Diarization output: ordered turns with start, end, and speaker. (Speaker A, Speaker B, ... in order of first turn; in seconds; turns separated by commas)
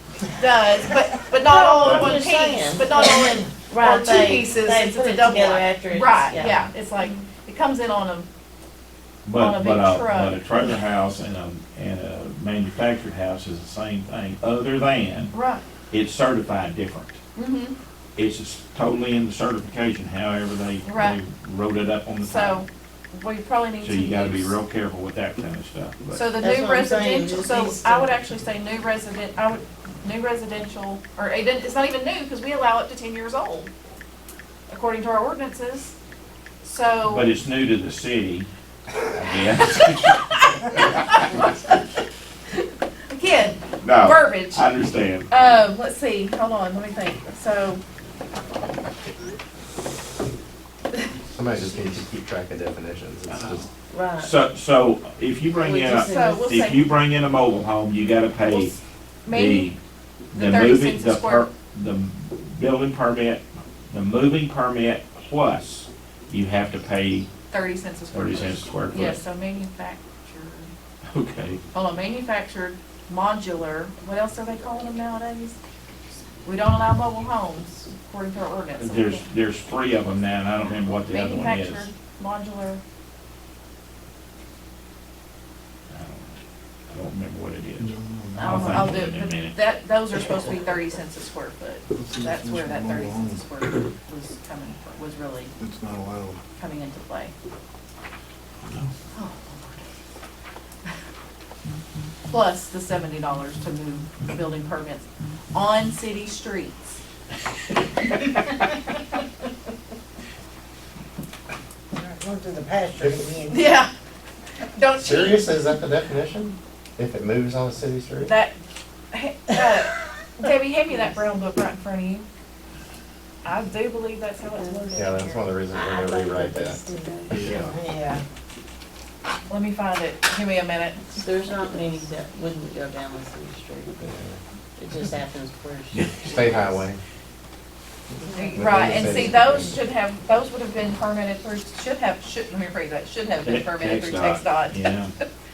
Speaker A: 0.3-8.3, Speaker B: 1.4-7.2, Speaker C: 9.2-15.3, Speaker A: 9.3-10.4, Speaker A: 15.3-15.6, Speaker C: 15.9-17.2, Speaker A: 17.3-17.8, Speaker C: 18.2-22.6, Speaker A: 20.8-21.2, Speaker A: 22.2-24.6, Speaker C: 23.8-26.3, Speaker A: 26.1-33.7, Speaker B: 26.4-28.2, Speaker A: 34.7-36.0, Speaker A: 36.6-37.3, Speaker C: 37.1-38.5, Speaker C: 39.1-40.3, Speaker A: 40.0-41.8, Speaker A: 43.1-44.7, Speaker C: 43.8-45.3, Speaker A: 45.3-47.8, Speaker D: 51.3-53.7, Speaker C: 53.3-58.8, Speaker B: 53.9-54.4, Speaker B: 55.6-56.5, Speaker A: 55.9-57.0, Speaker A: 58.5-59.7, Speaker C: 59.3-59.8, Speaker A: 60.3-61.5, Speaker C: 60.3-67.3, Speaker A: 67.5-70.7, Speaker C: 68.1-69.2, Speaker C: 71.1-71.6, Speaker A: 71.7-75.6, Speaker A: 76.4-79.2, Speaker C: 78.8-81.9, Speaker A: 81.1-82.8, Speaker C: 85.9-89.6, Speaker E: 87.8-88.8, Speaker A: 88.3-95.5, Speaker E: 91.9-93.5, Speaker E: 95.6-96.4, Speaker A: 96.6-97.3, Speaker C: 98.7-98.9, Speaker A: 99.1-99.8, Speaker A: 102.3-107.0, Speaker F: 111.9-113.8, Speaker A: 113.5-113.9, Speaker A: 114.7-115.5, Speaker D: 115.0-118.3, Speaker A: 118.2-118.6, Speaker A: 119.1-122.3, Speaker A: 123.4-125.5, Speaker F: 124.6-125.0, Speaker D: 125.0-126.8, Speaker B: 125.7-127.6, Speaker F: 126.9-128.2, Speaker E: 127.3-127.7, Speaker A: 129.5-132.1, Speaker B: 131.1-134.0, Speaker D: 134.0-134.4, Speaker B: 134.8-136.8, Speaker C: 135.9-136.7, Speaker D: 136.2-137.0, Speaker D: 138.1-139.8, Speaker B: 138.2-139.4, Speaker A: 138.3-145.2, Speaker C: 143.4-145.1